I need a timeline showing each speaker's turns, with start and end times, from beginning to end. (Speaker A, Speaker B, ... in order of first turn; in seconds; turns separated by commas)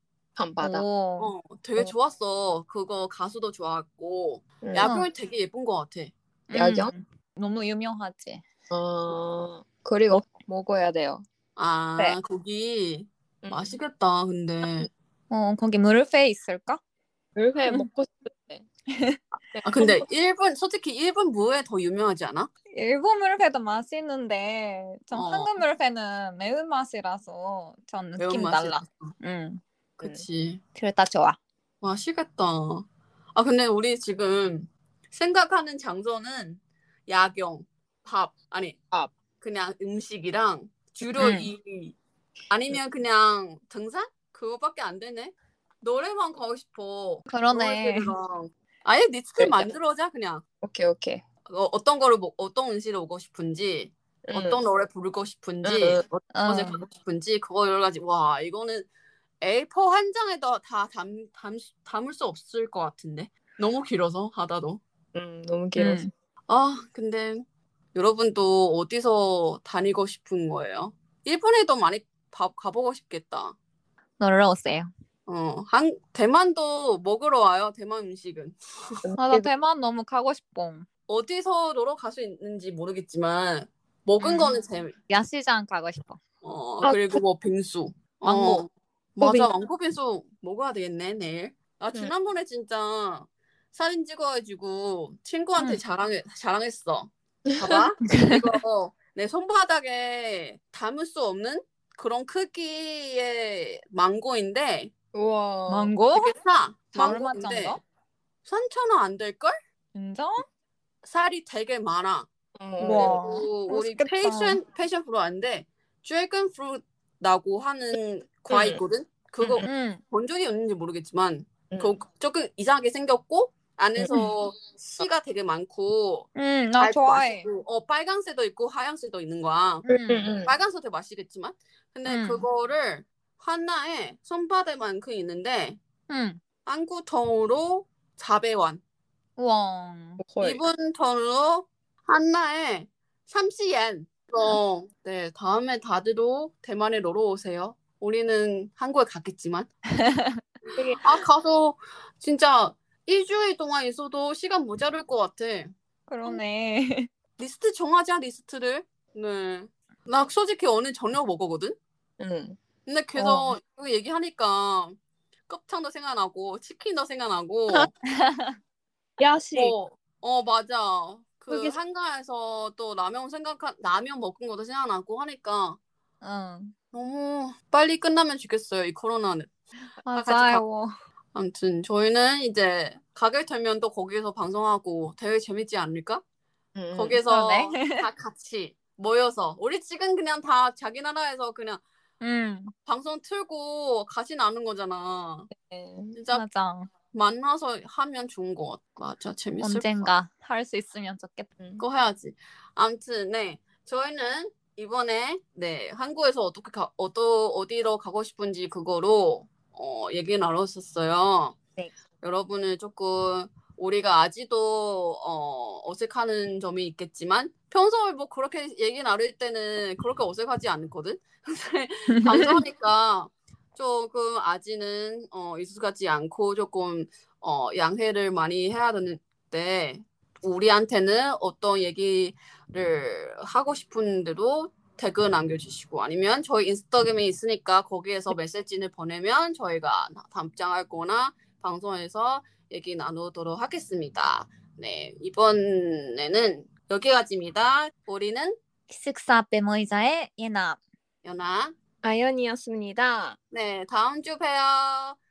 Speaker A: 0.4-0.8, Speaker B: 0.6-1.3, Speaker C: 1.2-6.1, Speaker A: 4.6-4.9, Speaker B: 4.8-5.1, Speaker B: 6.5-8.4, Speaker A: 6.5-6.9, Speaker A: 8.7-11.2, Speaker C: 11.6-14.9, Speaker A: 13.4-13.8, Speaker B: 15.3-16.8, Speaker A: 17.4-18.7, Speaker B: 18.9-19.2, Speaker A: 19.5-20.0, Speaker C: 19.6-22.5, Speaker B: 22.7-29.6, Speaker C: 25.1-25.6, Speaker C: 28.2-29.1, Speaker C: 30.0-30.6, Speaker B: 30.8-31.4, Speaker C: 31.8-38.8, Speaker C: 39.4-42.0, Speaker B: 41.2-41.5, Speaker C: 42.5-50.4, Speaker B: 47.3-48.1, Speaker A: 49.4-49.7, Speaker A: 50.6-51.2, Speaker C: 51.5-58.9, Speaker A: 54.2-54.6, Speaker A: 55.6-56.0, Speaker B: 56.3-56.8, Speaker C: 59.4-64.8, Speaker A: 65.1-66.0, Speaker B: 65.8-66.1, Speaker C: 66.5-73.6, Speaker B: 74.2-74.9, Speaker C: 75.3-78.9, Speaker A: 79.0-79.5, Speaker B: 79.2-80.8, Speaker C: 81.1-84.9, Speaker B: 84.2-86.2, Speaker C: 86.4-104.9, Speaker A: 86.8-87.2, Speaker A: 88.2-88.7, Speaker A: 89.2-89.5, Speaker A: 97.6-97.8, Speaker B: 98.0-98.5, Speaker A: 105.1-105.9, Speaker B: 105.7-106.3, Speaker C: 106.1-107.8, Speaker B: 106.9-107.8, Speaker C: 108.5-109.5, Speaker B: 109.9-110.4, Speaker C: 111.0-112.3, Speaker A: 112.6-113.2, Speaker B: 112.8-114.6, Speaker C: 112.8-129.8, Speaker A: 118.5-118.8, Speaker A: 119.4-119.7, Speaker B: 119.6-120.0, Speaker A: 124.0-124.2, Speaker B: 126.3-127.5, Speaker B: 129.8-130.3, Speaker A: 129.9-130.5, Speaker C: 130.4-135.8, Speaker B: 132.0-132.4, Speaker B: 136.1-136.4, Speaker C: 136.7-138.8, Speaker B: 139.4-140.2, Speaker A: 140.2-140.6, Speaker C: 140.4-149.7, Speaker B: 149.9-150.4, Speaker C: 151.0-155.7, Speaker B: 156.1-157.1, Speaker C: 157.4-161.8, Speaker A: 162.2-162.6, Speaker C: 162.8-165.0, Speaker A: 163.2-163.5, Speaker C: 165.5-167.9, Speaker B: 168.1-168.6, Speaker A: 169.2-169.7, Speaker C: 169.5-175.8, Speaker A: 171.5-171.8, Speaker B: 176.2-176.7, Speaker C: 176.9-179.5, Speaker B: 180.0-180.9, Speaker C: 180.1-180.6, Speaker C: 181.3-186.2, Speaker A: 186.7-187.2, Speaker C: 186.9-191.8, Speaker B: 187.2-188.1, Speaker B: 192.2-192.7, Speaker C: 192.8-195.5, Speaker A: 195.5-196.2, Speaker C: 196.1-196.4, Speaker B: 196.3-196.9, Speaker C: 197.1-200.1, Speaker B: 199.6-201.5, Speaker A: 201.6-201.8, Speaker C: 201.8-211.6, Speaker C: 212.2-248.6, Speaker B: 222.2-222.6, Speaker B: 248.9-250.8, Speaker C: 251.2-251.7, Speaker A: 252.0-253.4, Speaker C: 253.5-255.2